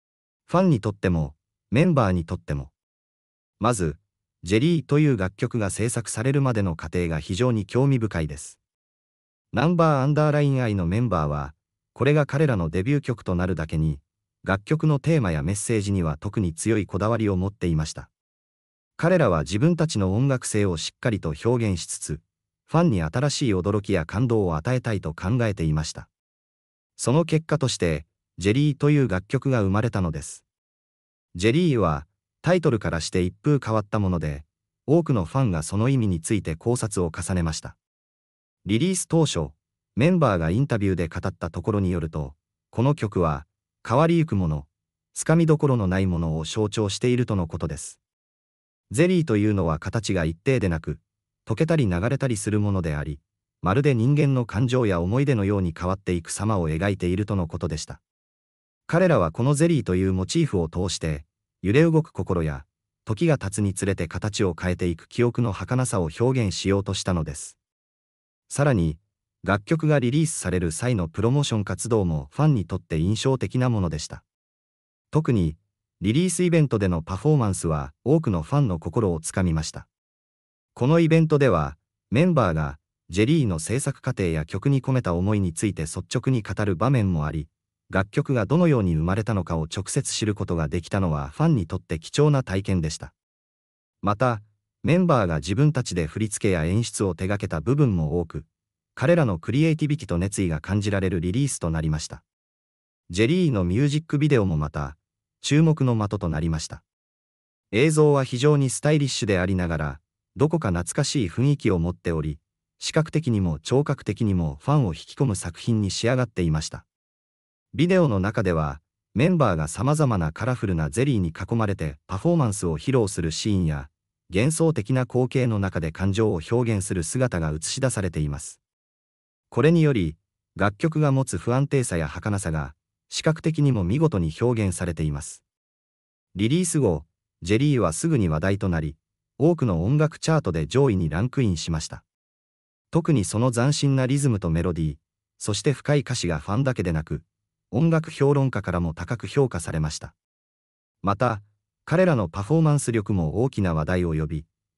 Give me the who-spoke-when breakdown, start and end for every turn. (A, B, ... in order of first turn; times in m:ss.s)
0:00.5-0:02.7 A
0:03.6-0:08.6 A
0:09.5-0:18.1 A
0:19.0-0:26.1 A
0:27.0-0:30.4 A
0:31.3-0:37.8 A
0:38.6-0:48.0 A
0:48.9-0:58.0 A
0:58.9-1:07.6 A
1:08.5-1:14.2 A
1:15.1-1:19.9 A
1:20.8-1:33.1 A
1:34.0-1:42.2 A
1:43.1-1:46.8 A
1:47.7-1:56.8 A
1:57.7-2:08.6 A
2:09.5-2:15.4 A
2:16.3-2:22.0 A
2:22.9-2:30.1 A
2:31.0-2:34.5 A